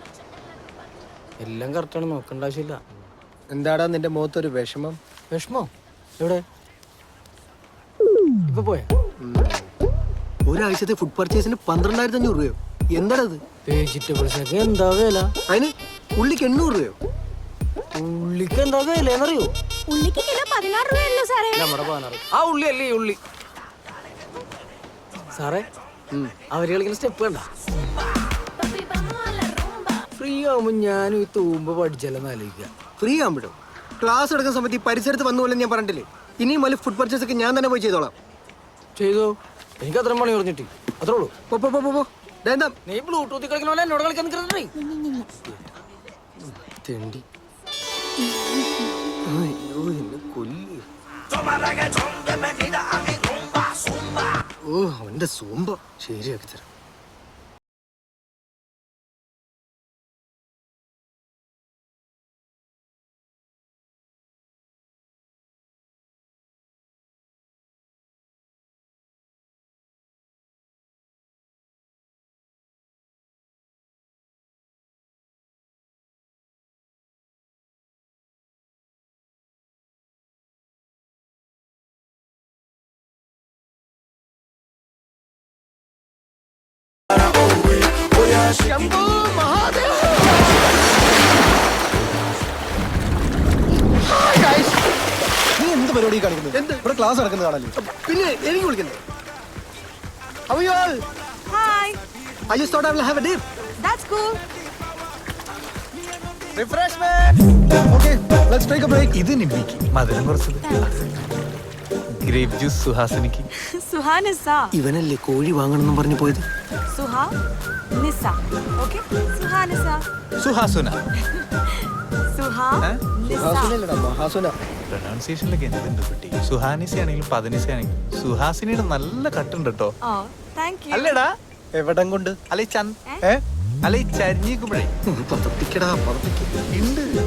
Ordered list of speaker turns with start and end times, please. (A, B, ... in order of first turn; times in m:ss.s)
0:01.4-0:02.8 A
0:03.5-0:05.0 B
0:05.3-0:06.4 A
0:08.5-0:08.9 A
0:09.2-0:09.7 B
0:10.5-0:13.4 B
0:13.7-0:15.3 A
0:15.5-0:17.0 B
0:18.0-0:19.5 A
0:19.9-0:21.8 C
0:21.5-0:23.2 A
0:25.3-0:25.7 A
0:26.5-0:27.5 A
0:28.6-0:30.0 C
0:30.1-0:32.7 A
0:33.0-0:38.1 B
0:39.0-0:41.3 A
0:41.5-0:42.8 B
0:42.9-0:44.7 A
0:45.3-0:45.6 B
0:46.4-0:47.2 B
0:49.2-0:50.8 B
0:54.6-0:56.7 B
1:28.2-1:30.6 B
1:33.7-1:34.9 B
1:35.6-1:37.7 D
1:36.5-1:36.9 B
1:37.8-1:39.0 B
1:40.5-1:41.0 B
1:41.5-1:42.0 C
1:42.5-1:43.4 B
1:43.8-1:44.4 C
1:46.6-1:47.4 E
1:47.9-1:49.2 D
1:49.1-1:51.2 E
1:52.2-1:53.5 E
1:53.7-1:54.8 C
1:54.7-1:56.5 B
1:56.9-1:57.4 C
1:58.0-2:00.1 C
2:00.4-2:01.0 E
2:01.3-2:03.8 C
2:03.3-2:04.6 B
2:04.9-2:09.9 E
2:10.0-2:11.2 C
2:10.9-2:11.3 E
2:11.8-2:12.4 D
2:12.5-2:13.0 E
2:13.8-2:14.9 E
2:15.1-2:16.5 B
2:16.7-2:17.1 E